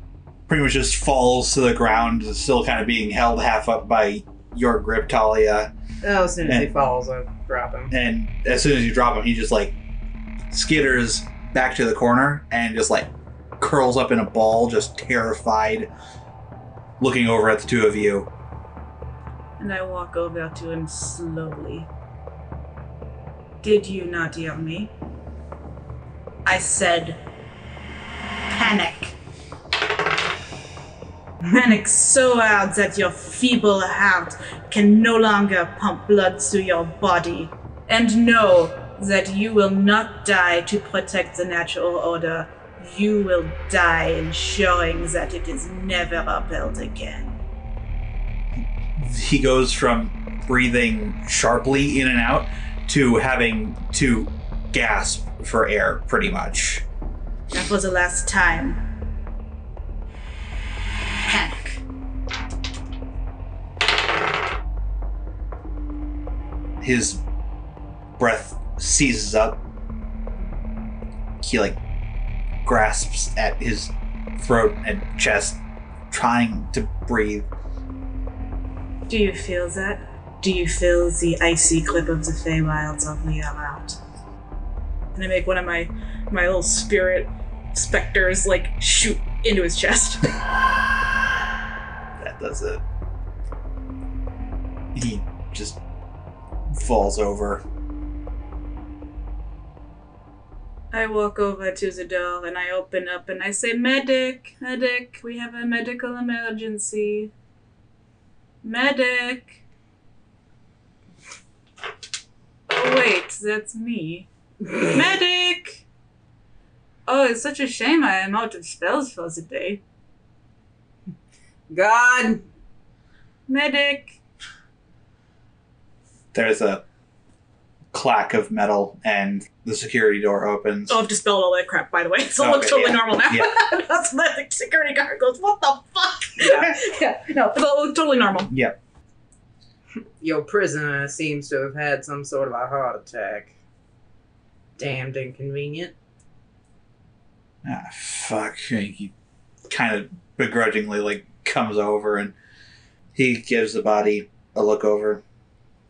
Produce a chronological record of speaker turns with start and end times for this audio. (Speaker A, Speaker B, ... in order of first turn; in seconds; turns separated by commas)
Speaker A: 0.5-5.7, Speaker B: 6.0-7.9, Speaker A: 6.4-6.7, Speaker A: 7.9-9.7, Speaker A: 10.5-15.9, Speaker A: 17.0-18.3, Speaker C: 19.6-21.9, Speaker C: 23.6-24.9, Speaker C: 26.4-27.2, Speaker C: 28.5-29.1, Speaker C: 31.5-47.4, Speaker A: 49.0-56.8, Speaker C: 57.5-58.8, Speaker C: 61.2-61.8, Speaker A: 66.8-67.2, Speaker A: 68.2-69.6, Speaker A: 71.4-71.8, Speaker A: 72.6-77.5, Speaker C: 79.1-84.0, Speaker C: 85.1-90.4, Speaker A: 92.2-92.8, Speaker A: 94.9-95.8, Speaker A: 96.7-97.6, Speaker C: 100.9-107.3, Speaker C: 108.6-109.6, Speaker C: 112.7-115.8, Speaker C: 117.1-119.8, Speaker B: 121.7-122.4, Speaker C: 123.5-124.2, Speaker A: 126.3-126.8, Speaker A: 127.9-131.0, Speaker C: 130.9-138.5, Speaker A: 132.4-133.5, Speaker A: 136.4-136.7, Speaker A: 138.5-138.8, Speaker B: 140.2-143.5, Speaker B: 144.8-145.9, Speaker A: 147.6-149.1, Speaker A: 149.7-152.3, Speaker A: 153.2-155.2